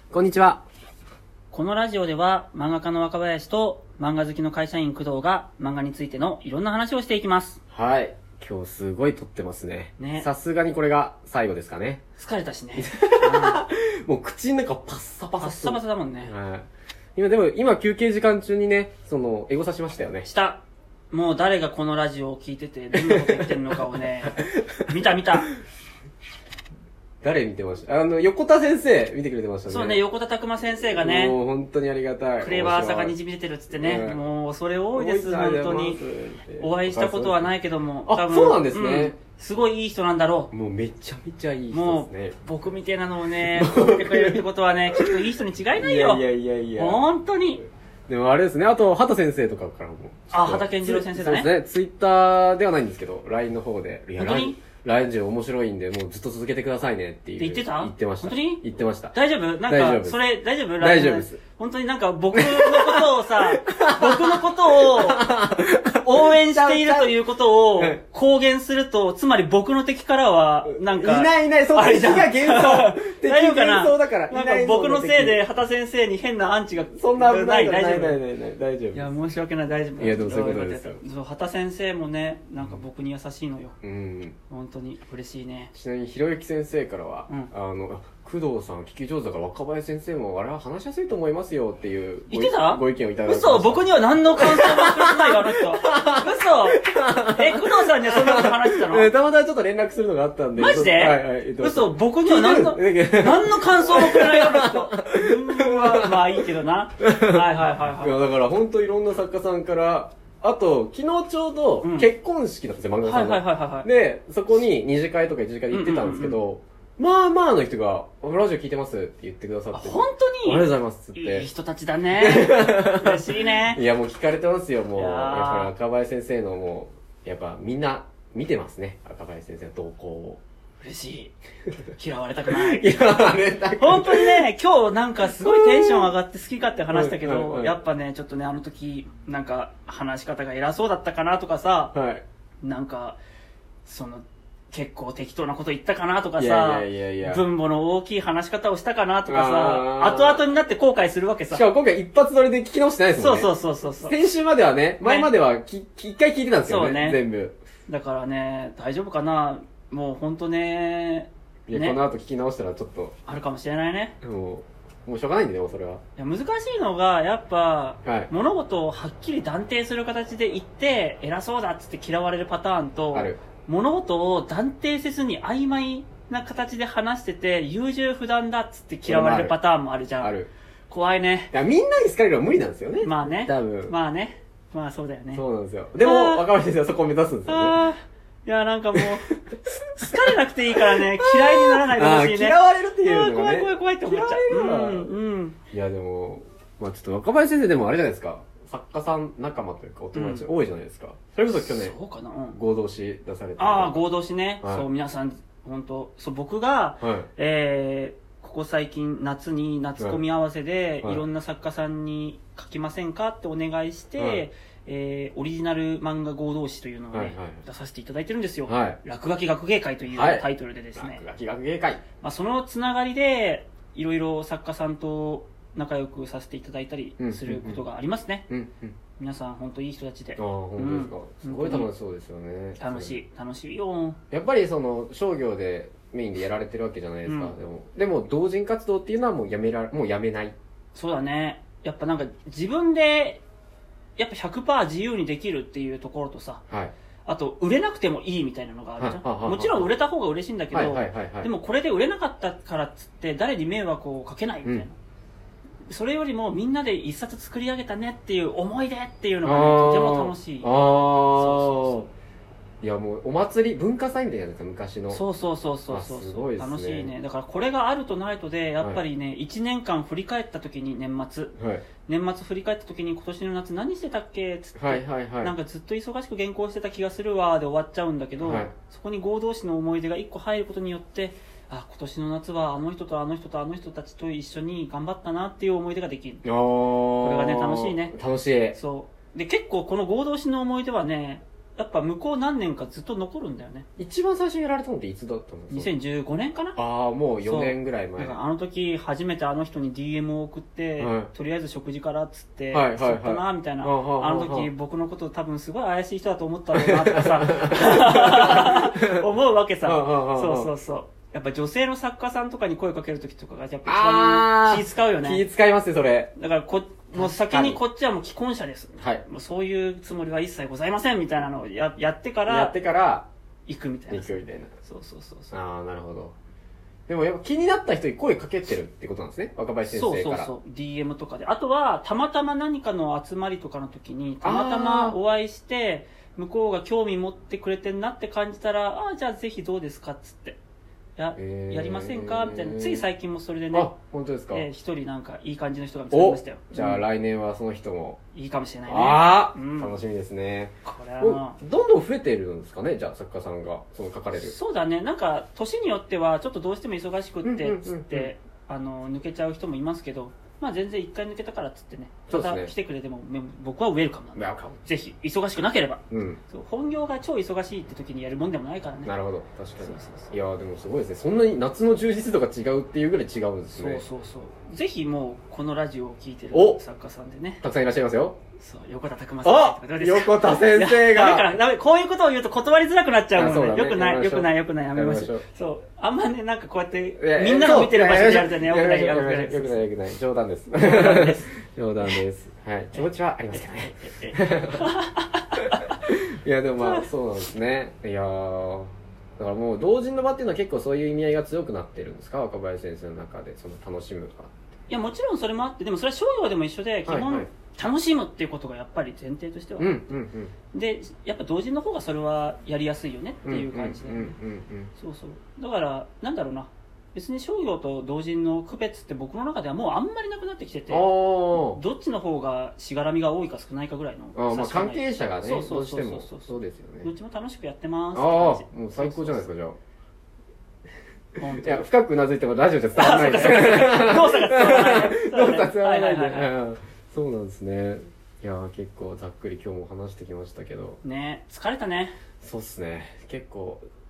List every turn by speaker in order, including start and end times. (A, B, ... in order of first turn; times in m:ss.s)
0:00.1-0:00.6 A
0:01.5-0:07.6 B
0:07.7-0:12.0 A
0:10.0-0:10.3 B
0:12.2-0:13.6 B
0:12.8-0:20.3 A
0:15.4-0:16.3 B
0:20.2-0:25.5 B
0:22.9-0:24.9 A
0:27.2-0:30.0 A
0:29.7-0:31.4 B
0:30.9-0:33.2 A
0:32.4-0:36.0 B
0:33.7-0:34.2 A
0:34.9-0:37.5 A
0:36.6-0:40.5 B
0:38.1-0:39.2 A
0:40.5-0:42.4 A
0:41.7-0:46.2 B
0:43.4-0:45.2 A
0:45.8-0:47.0 A
0:46.8-0:47.6 B
0:48.1-0:59.2 A
0:50.3-0:51.5 B
0:54.2-0:54.6 B
0:57.4-1:05.3 B
0:59.7-1:00.2 A
1:00.8-1:01.4 A
1:02.3-1:07.2 A
1:06.0-1:18.2 B
1:10.6-1:15.4 A
1:16.9-1:19.1 A
1:18.9-1:23.8 B
1:20.0-1:21.0 A
1:23.8-1:24.4 A
1:24.5-1:25.7 B
1:25.7-1:46.5 A
1:32.3-1:39.1 B
1:40.6-1:48.2 B
1:47.0-2:01.5 A
1:51.8-1:52.1 B
1:53.0-1:53.9 B
1:55.7-1:56.4 B
1:59.7-2:03.8 B
2:02.2-2:10.4 A
2:05.0-2:05.7 B
2:10.8-2:11.3 B
2:11.9-2:13.2 B
2:12.5-2:14.5 A
2:13.8-2:21.9 B
2:15.2-2:16.1 A
2:16.9-2:17.7 A
2:21.9-2:22.2 A
2:22.6-2:23.2 B
2:23.8-2:31.6 B
2:26.4-2:27.4 A
2:29.3-2:30.4 A
2:31.5-2:37.6 A
2:33.2-2:34.2 B
2:35.0-2:35.3 B
2:36.6-2:37.2 B
2:37.9-2:42.0 B
2:41.7-2:43.2 A
2:43.3-2:44.2 B
2:44.2-2:46.0 A
2:46.2-3:00.4 B
2:48.0-2:48.3 A
2:53.1-2:53.4 A
2:59.1-2:59.6 A
3:00.2-3:00.5 A
3:00.9-3:01.5 B
3:01.5-3:03.9 A
3:03.0-3:05.4 B
3:05.3-3:07.8 A
3:06.0-3:06.5 B
3:07.5-3:09.3 B
3:09.0-3:10.2 A
3:10.0-3:15.6 B
3:10.8-3:15.1 A
3:15.7-3:22.0 A
3:20.1-3:20.5 B
3:21.5-3:22.6 B
3:22.5-3:24.0 A
3:23.6-3:41.2 B
3:24.6-3:24.9 A
3:27.0-3:27.3 A
3:34.2-3:34.5 A
3:37.1-3:37.6 A
3:38.7-3:39.0 A
3:40.1-3:42.0 A
3:42.2-3:48.4 B
3:47.2-3:47.8 A
3:48.5-3:49.0 A
3:49.2-3:51.9 B
3:50.4-3:53.2 A
3:52.8-3:54.2 B
3:54.3-4:00.6 A
3:57.3-3:57.6 B
4:00.9-4:03.4 B
4:04.2-4:06.6 B
4:07.3-4:15.0 B
4:09.0-4:09.9 A
4:10.7-4:11.5 A
4:15.9-4:20.7 B
4:19.4-4:22.1 A
4:21.3-4:22.0 B
4:22.8-4:25.2 A
4:25.1-4:31.5 B
4:25.9-4:27.1 A
4:31.6-4:31.9 A
4:32.1-4:46.4 B
4:34.8-4:35.5 A
4:38.4-4:38.7 A
4:46.4-4:48.8 A
4:47.2-4:48.2 B
4:48.7-4:53.9 B
4:54.0-4:55.9 A
4:55.7-4:56.8 B
4:56.8-4:58.4 A
4:57.4-5:15.4 B
5:01.0-5:01.3 A
5:02.7-5:04.7 A
5:06.7-5:09.3 A
5:09.8-5:10.7 A
5:13.9-5:16.3 A
5:16.4-5:22.7 B
5:17.1-5:17.8 A
5:22.5-5:23.3 A
5:23.7-5:25.6 B
5:24.1-5:24.7 A
5:25.5-5:26.3 A
5:27.1-5:30.5 A
5:29.9-5:40.6 B
5:34.4-5:35.2 A
5:41.2-5:43.9 B
5:41.4-5:43.1 A
5:43.7-5:44.7 A
5:44.5-5:47.0 B
5:46.1-5:48.2 A
5:48.3-5:50.0 B
5:48.9-5:54.6 A
5:50.8-5:51.6 B
5:54.3-6:09.1 B
5:57.4-5:58.3 A
6:02.3-6:02.7 A
6:04.4-6:04.8 A
6:06.1-6:06.4 A
6:09.0-6:14.0 A
6:09.8-6:10.3 B
6:13.7-6:17.6 B
6:16.5-6:16.8 A
6:17.6-6:18.4 A
6:18.6-6:29.8 B
6:19.4-6:21.6 A
6:23.4-6:25.4 A
6:27.2-6:34.9 A
6:30.8-6:31.4 B
6:33.0-6:36.0 B
6:35.6-6:44.6 A
6:36.8-6:37.1 B
6:44.9-6:50.0 B
6:47.1-6:47.5 A
6:49.8-6:50.5 A
6:50.7-6:54.4 B
6:53.4-6:54.9 A
6:55.0-7:06.5 B
7:00.9-7:01.8 A
7:04.4-7:07.1 A
7:07.0-7:09.5 B
7:08.1-7:09.8 A
7:11.4-7:11.9 B
7:11.5-7:21.0 A
7:13.0-7:16.5 B
7:21.0-7:22.2 B
7:22.4-7:23.8 A